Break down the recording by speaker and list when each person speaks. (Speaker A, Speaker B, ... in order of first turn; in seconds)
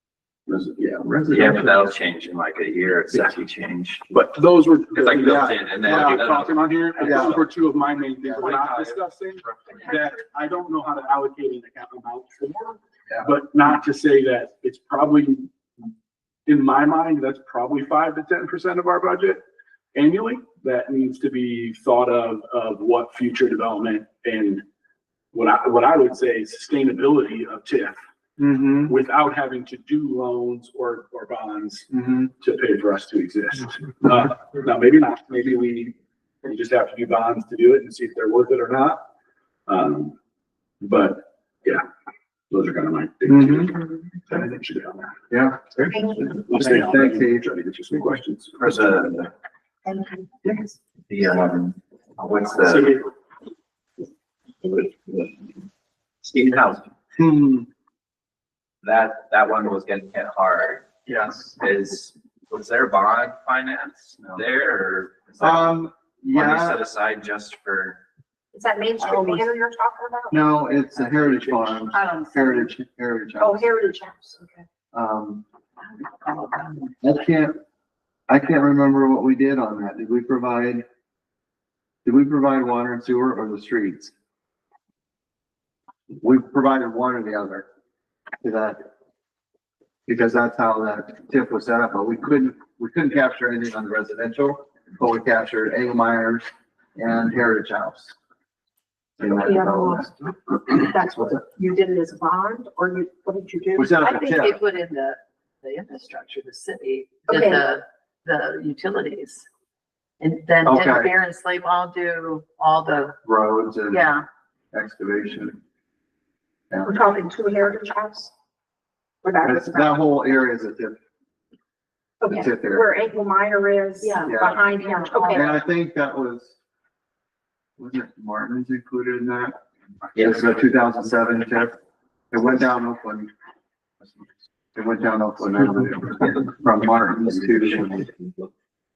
Speaker A: 0.5-1.7, 4.1-15.5, 16.4-19.4, 19.9-24.6, 25.3-28.0, 28.8-31.9, 32.4-39.0, 39.7-40.1, 40.8-41.8, 42.5-45.1, 45.7-48.6
Speaker B: 1.3-4.0, 4.9-7.4, 48.6-49.3, 50.4-53.0, 54.8-55.2, 56.2-56.9, 58.8-65.8, 66.3-68.0, 130.2-130.4, 137.4-138.5
Speaker C: 5.2-6.3, 7.0-7.6, 8.2-9.8, 28.4-28.9, 31.9-32.3, 43.3-43.7, 45.3-45.8, 46.4-47.5, 57.2-57.5, 65.4-66.8, 69.0-69.4, 70.3-73.7, 74.9-75.4, 77.0-77.6, 78.3-80.8, 82.0-84.1, 86.2-87.7, 88.4-88.8, 90.1-98.1, 99.2-100.1, 103.8-104.6, 110.6-111.1, 113.2-114.1, 114.7-115.6, 119.4-121.0, 122.3-122.9, 124.2-124.7, 125.3-126.5, 127.8-129.6, 130.1-131.7, 132.3-133.3, 134.0-138.1
Speaker D: 9.7-10.2, 45.9-46.2, 68.5-70.4, 73.4-74.4, 99.2-104.0, 107.3-107.7, 116.8-118.3, 119.2-120.0, 122.2-125.6
Speaker E: 71.9-72.7, 75.9-76.9, 104.0-109.5, 110.2-113.2, 113.9-114.2, 124.0-125.5